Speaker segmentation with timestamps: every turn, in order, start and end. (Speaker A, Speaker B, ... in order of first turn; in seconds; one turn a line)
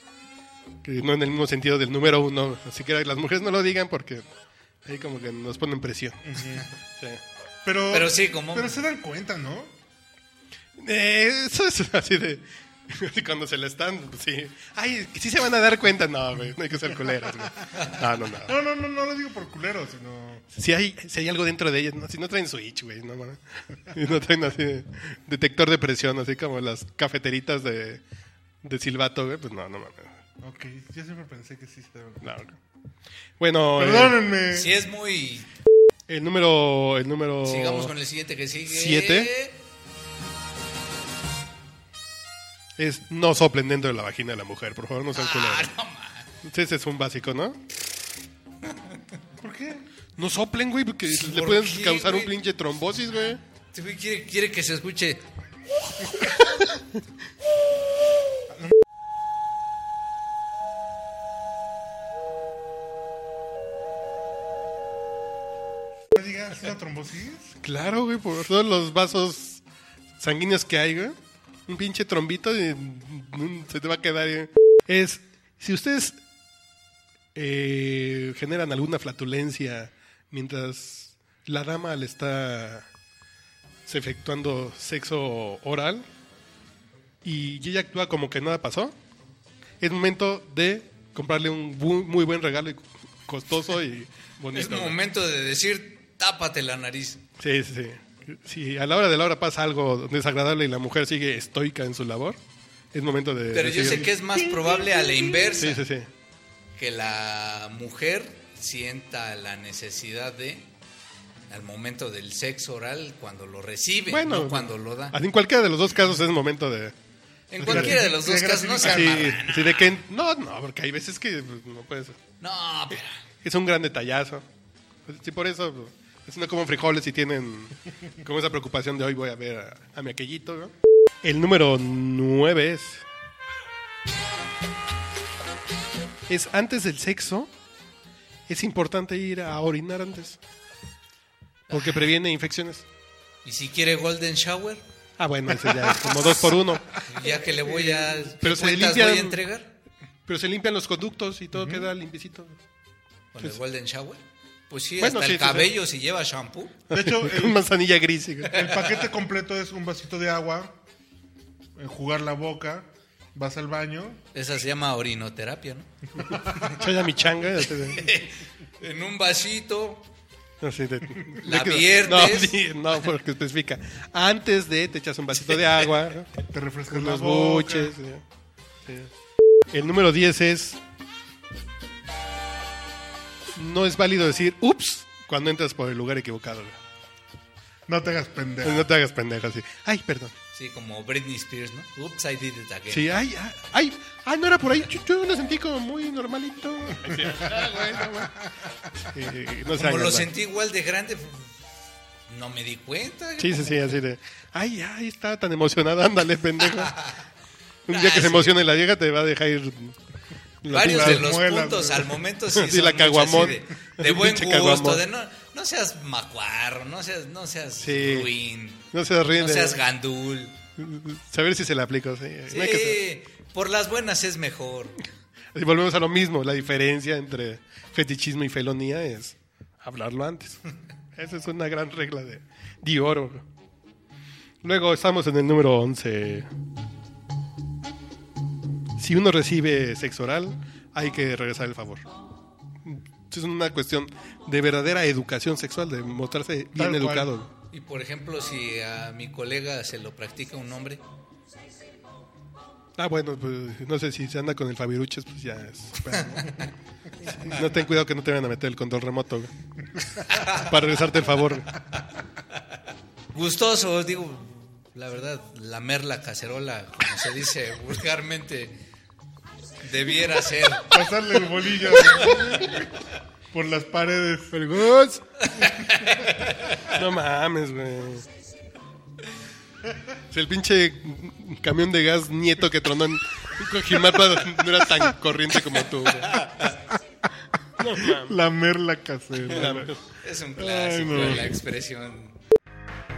Speaker A: 0.8-4.2
Speaker A: 4.8-6.4
Speaker B: 6.2-6.7
Speaker B: 7.6-9.7
Speaker C: 7.9-8.8
Speaker A: 10.8-18.5
Speaker B: 18.4-20.4
Speaker A: 20.6-28.0
Speaker A: 28.6-30.2
Speaker B: 30.4-32.3
Speaker A: 32.2-32.6
Speaker A: 33.4-34.2
Speaker B: 33.8-34.7
Speaker C: 34.5-35.5
Speaker A: 36.1-37.9
Speaker C: 37.5-39.6
Speaker A: 38.7-39.3
Speaker A: 42.8-45.7
Speaker C: 45.1-46.3
Speaker A: 46.4-47.6
Speaker C: 48.7-49.0
Speaker B: 49.4-49.9
Speaker A: 50.2-53.4
Speaker C: 51.1-52.4
Speaker C: 53.7-55.2
Speaker B: 66.1-67.6
Speaker A: 67.6-69.6
Speaker A: 70.2-71.2
Speaker A: 71.7-76.2
Speaker A: 77.3-82.9
Speaker A: 83.9-86.1
Speaker A: 87.2-89.0
Speaker A: 89.8-95.0
Speaker C: 94.5-97.2
Speaker A: 97.4-102.4
Speaker A: 102.9-104.2
Speaker C: 103.5-105.8
Speaker A: 105.5-106.1
Speaker C: 106.8-110.7
Speaker C: 111.5-115.2
Speaker A: 114.1-117.0
Speaker C: 117.5-120.0
Speaker A: 117.6-118.0
Speaker B: 117.6-119.4
Speaker A: 118.8-122.2
Speaker C: 122.4-123.2
Speaker A: 123.4-124.5
Speaker A: 125.1-130.7
Speaker A: 131.2-133.1
Speaker A: 136.3-137.5
Speaker A: 138.5-140.4
Speaker C: 141.7-142.1
Speaker A: 141.7-142.8
Speaker C: 143.4-144.8
Speaker A: 145.2-149.4
Speaker C: 147.0-149.7
Speaker A: 150.3-152.6
Speaker B: 151.6-151.9
Speaker C: 153.3-156.8
Speaker A: 155.0-155.7
Speaker A: 156.9-158.6
Speaker B: 156.9-157.6
Speaker B: 158.5-160.8
Speaker C: 158.5-158.9
Speaker B: 161.8-164.2
Speaker C: 164.3-166.8
Speaker A: 166.6-168.0
Speaker C: 167.8-170.1
Speaker A: 170.6-178.2
Speaker C: 171.4-172.6
Speaker B: 176.5-177.9
Speaker A: 179.7-180.8
Speaker A: 183.6-186.8
Speaker B: 187.9-188.9
Speaker A: 188.6-190.3
Speaker C: 190.5-193.2
Speaker A: 192.9-198.4
Speaker A: 199.0-200.3
Speaker C: 199.7-201.5
Speaker C: 202.3-204.0
Speaker A: 203.4-207.0
Speaker C: 206.6-207.2
Speaker A: 207.9-209.9
Speaker C: 207.9-208.6
Speaker A: 210.6-211.3
Speaker C: 210.7-220.6
Speaker B: 210.8-212.2
Speaker A: 212.5-215.0
Speaker A: 217.8-218.3
Speaker A: 218.9-219.8
Speaker A: 220.8-223.0
Speaker C: 222.5-225.0
Speaker A: 225.5-230.6
Speaker A: 231.2-233.4
Speaker A: 234.6-236.5
Speaker A: 239.0-242.1
Speaker A: 242.8-247.5
Speaker B: 246.8-247.3
Speaker C: 247.7-251.0
Speaker A: 253.0-256.4
Speaker B: 256.1-256.4
Speaker C: 256.1-256.7
Speaker A: 257.2-259.5
Speaker C: 260.3-260.6
Speaker A: 260.3-261.8
Speaker C: 263.3-268.8
Speaker C: 269.8-270.9
Speaker B: 270.9-272.9
Speaker B: 273.5-274.6
Speaker A: 274.5-275.2
Speaker C: 275.5-276.8
Speaker A: 276.8-278.3
Speaker A: 280.3-286.5
Speaker C: 286.2-286.8
Speaker A: 287.8-288.4
Speaker B: 288.0-289.9
Speaker A: 289.4-290.0
Speaker C: 290.2-292.4
Speaker A: 290.6-291.6
Speaker B: 291.1-291.4